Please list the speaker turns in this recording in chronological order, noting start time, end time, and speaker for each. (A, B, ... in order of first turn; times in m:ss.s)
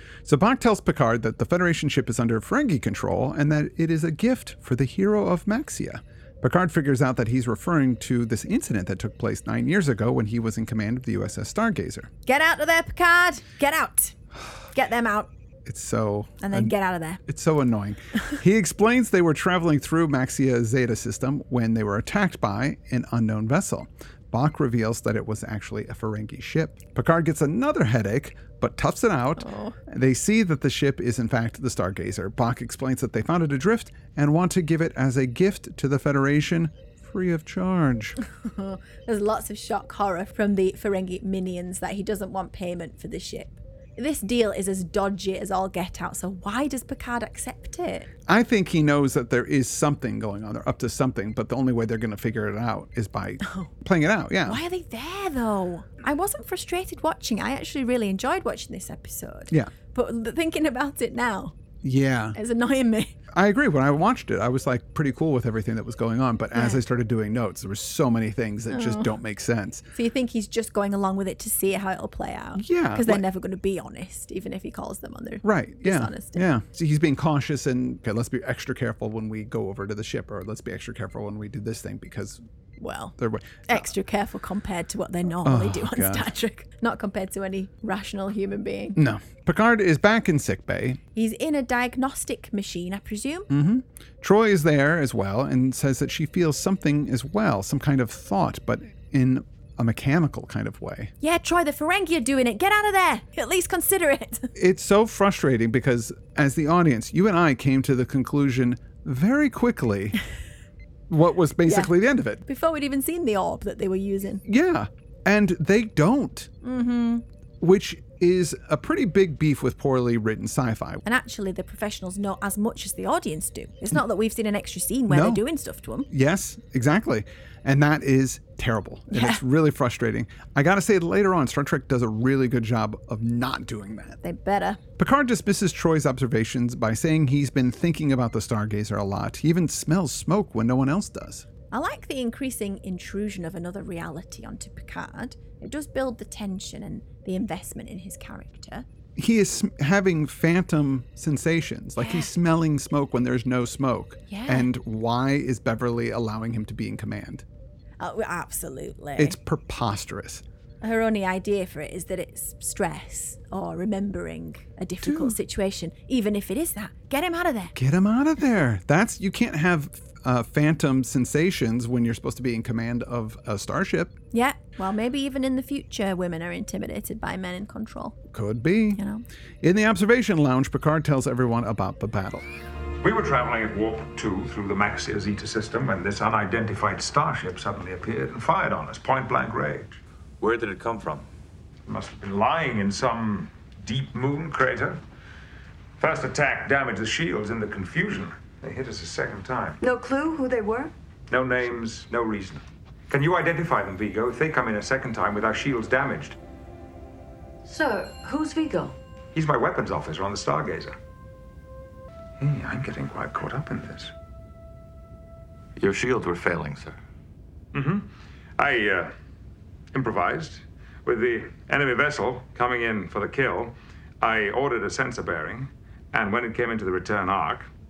0:00.2-0:12.1 A
0:12.3-0:14.2 B
0:14.7-0:15.3 B
0:15.6-0:16.7 A
0:16.4-0:17.2 B
0:17.3-0:38.2 A
0:29.4-0:29.8 B
0:38.3-0:48.1 B
0:48.3-0:54.6 A
0:53.4-0:53.7 B
0:54.4-1:01.6 B
1:01.8-1:02.4 A
1:02.3-1:03.2 B
1:03.3-1:09.8 A
1:06.5-1:06.8 B
1:08.7-1:09.1 B
1:10.0-1:16.5 B
1:12.6-1:13.2 A
1:15.4-1:22.4 A
1:22.8-1:23.2 B
1:23.2-1:23.8 A
1:23.7-1:29.0 B
1:25.4-1:26.3 A
1:29.0-1:31.0 A
1:31.2-1:33.5 B
1:33.5-1:41.1 A
1:41.2-1:44.5 B
1:44.6-1:50.2 A
1:51.1-1:52.4 A
1:51.6-1:51.9 B
1:52.5-1:54.4 B
1:54.4-1:56.5 A
1:56.6-1:57.2 B
1:57.6-2:01.0 A
2:01.0-2:06.1 B
2:05.1-2:05.4 A
2:06.1-2:14.2 A
2:09.1-2:09.4 B
2:14.2-2:14.8 B
2:15.0-2:21.4 A
2:21.7-2:28.9 B
2:29.2-2:37.4 A
2:32.0-2:32.3 B
2:34.3-2:34.7 B
2:38.0-2:39.4 B
2:39.2-2:40.4 A
2:40.8-2:47.8 B
2:45.0-2:45.4 A
2:47.8-2:54.2 A
2:54.3-2:58.2 B
2:58.3-2:59.0 A
2:59.0-2:59.2 B
2:59.6-3:02.4 A
3:03.0-3:10.0 C
3:10.4-3:11.2 D
3:11.9-3:15.0 C
3:16.0-3:19.8 C
3:19.8-3:20.9 E
3:21.3-3:26.4 C
3:27.6-3:29.0 E
3:29.3-3:30.9 C
3:32.4-3:34.1 C
3:35.8-3:37.0 D
3:37.7-3:39.1 C
3:39.9-3:47.7 C